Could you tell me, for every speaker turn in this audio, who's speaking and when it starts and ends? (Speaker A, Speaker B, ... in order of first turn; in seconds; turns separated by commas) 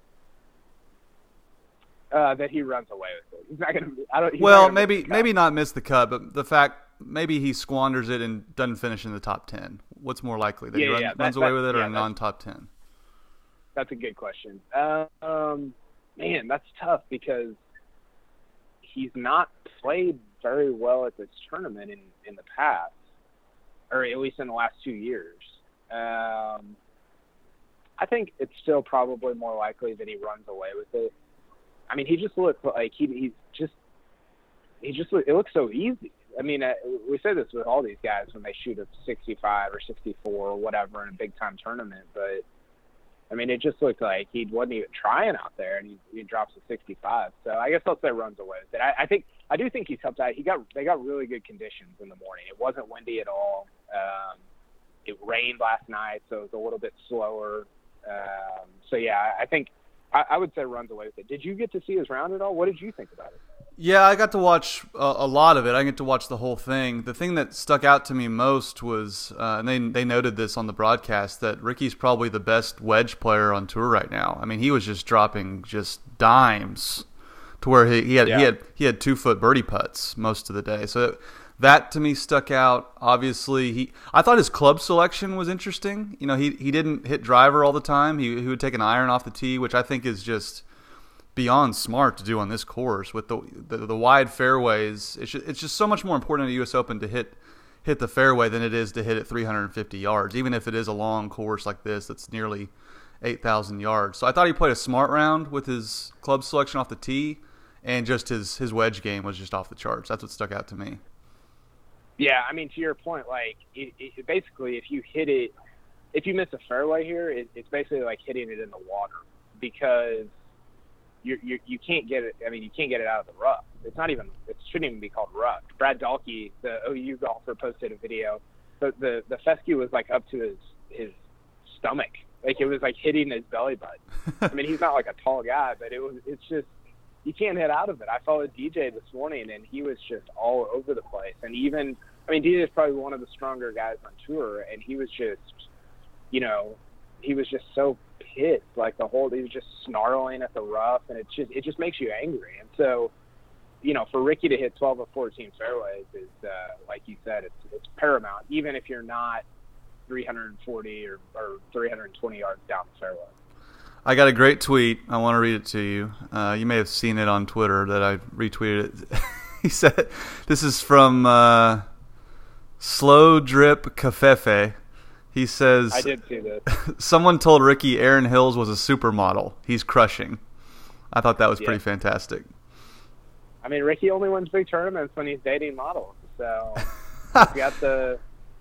Speaker A: 2.1-5.3, Speaker B: 4.4-12.7, Speaker A: 10.7-12.1, Speaker A: 13.8-17.6, Speaker A: 18.8-22.9, Speaker A: 23.9-26.8, Speaker A: 28.0-31.1, Speaker A: 31.9-33.7, Speaker A: 34.8-42.4, Speaker A: 43.3-54.4, Speaker A: 55.0-63.4, Speaker B: 63.8-77.0, Speaker B: 77.6-90.6, Speaker A: 78.2-78.5, Speaker B: 91.3-111.0, Speaker A: 112.2-115.5, Speaker A: 116.1-120.3, Speaker A: 121.2-131.2, Speaker A: 131.7-136.7, Speaker A: 137.2-145.6, Speaker A: 146.3-153.1, Speaker A: 153.8-159.4, Speaker A: 160.1-163.3, Speaker B: 164.0-171.8, Speaker B: 172.8-174.8, Speaker B: 175.3-176.1, Speaker A: 175.9-176.6, Speaker B: 176.7-180.4, Speaker B: 181.1-182.5, Speaker A: 183.6-188.2